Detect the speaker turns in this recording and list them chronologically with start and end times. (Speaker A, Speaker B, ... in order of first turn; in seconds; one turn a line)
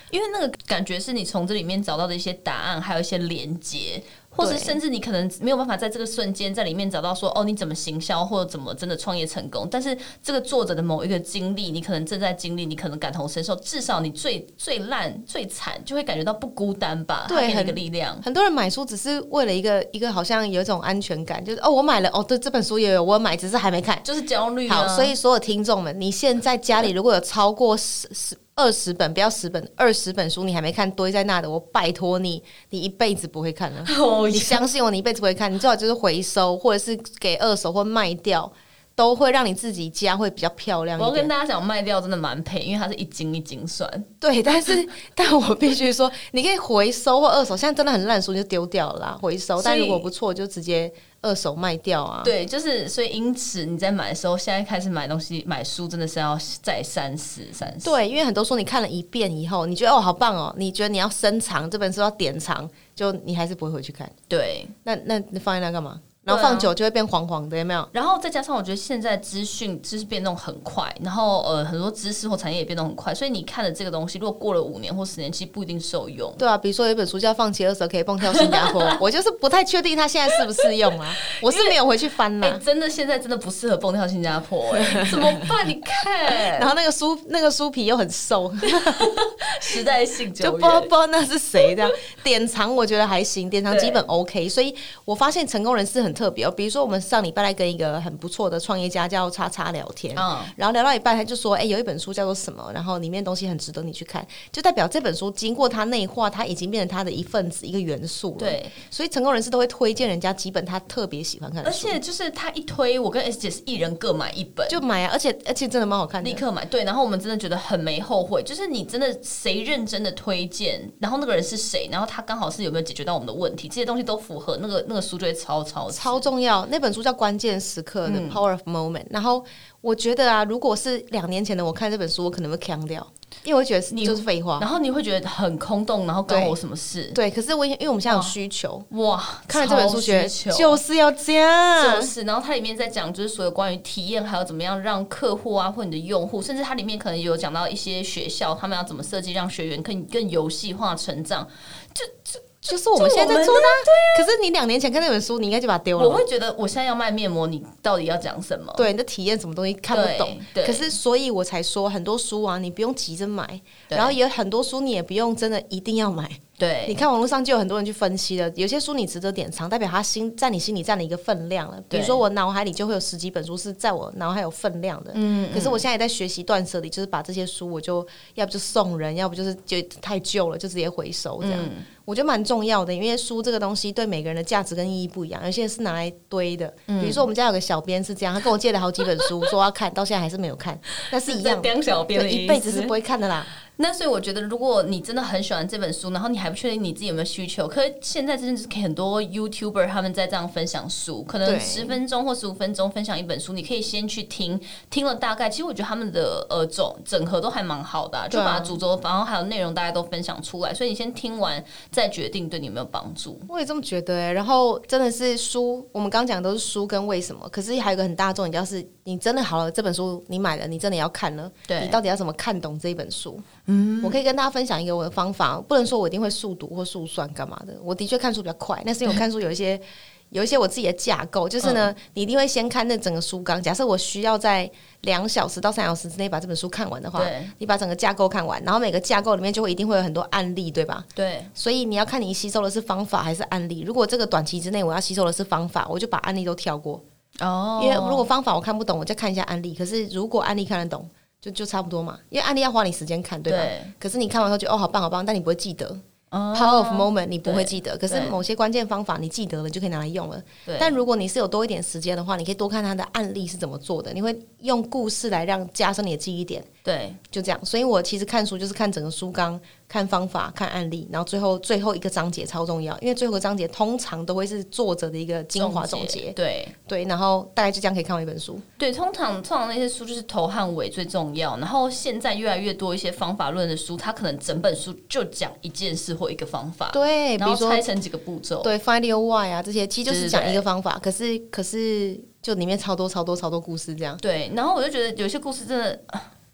Speaker A: 0.1-18.2
Speaker B: 4.4-4.8
Speaker B: 17.3-24.1
Speaker A: 24.0-25.1
Speaker B: 24.7-41.3
Speaker A: 33.9-34.6
Speaker A: 41.0-44.1
Speaker B: 44.2-52.3
Speaker A: 49.6-50.1
Speaker A: 52.2-58.0
Speaker B: 57.8-64.1
Speaker A: 64.3-64.7
Speaker B: 64.8-67.9
Speaker A: 66.3-66.7
Speaker A: 67.9-76.4
Speaker B: 76.4-82.6
Speaker A: 78.3-78.9
Speaker A: 81.4-81.8
Speaker A: 82.4-86.7
Speaker B: 84.9-85.5
Speaker B: 86.5-89.1
Speaker A: 88.9-90.9
Speaker B: 90.4-112.0
Speaker A: 93.7-94.0
Speaker A: 100.2-100.5
Speaker A: 108.4-108.8
Speaker A: 111.6-114.8
Speaker B: 114.7-116.4
Speaker A: 116.2-126.3
Speaker B: 125.9-134.7
Speaker A: 128.1-128.4
Speaker A: 133.9-137.2
Speaker B: 136.3-136.6
Speaker B: 137.1-138.9
Speaker A: 138.1-138.3
Speaker A: 138.9-140.8
Speaker B: 139.5-142.1
Speaker A: 141.8-154.3
Speaker B: 152.7-156.2
Speaker A: 156.0-158.9
Speaker B: 158.8-193.5
Speaker A: 159.9-160.9
Speaker A: 163.9-164.2
Speaker A: 166.6-167.0
Speaker A: 171.9-172.2
Speaker A: 175.1-175.9
Speaker A: 181.4-181.9
Speaker A: 186.9-187.3
Speaker A: 191.1-192.9
Speaker A: 193.7-213.5
Speaker B: 201.4-202.0
Speaker B: 208.3-208.8
Speaker B: 213.5-223.5
Speaker A: 221.7-222.0
Speaker A: 223.7-224.2
Speaker B: 224.0-247.0
Speaker A: 231.6-231.9
Speaker A: 237.2-237.5
Speaker A: 241.2-241.5
Speaker A: 247.4-248.3
Speaker B: 247.8-256.0
Speaker A: 253.5-253.9
Speaker A: 256.3-258.4
Speaker B: 256.5-266.7
Speaker A: 260.7-261.0
Speaker A: 266.9-267.2
Speaker B: 267.3-276.4
Speaker A: 275.6-276.7
Speaker B: 276.9-278.6
Speaker A: 278.8-288.7
Speaker B: 286.9-287.9
Speaker B: 288.6-294.2
Speaker A: 290.1-290.7
Speaker A: 294.2-296.3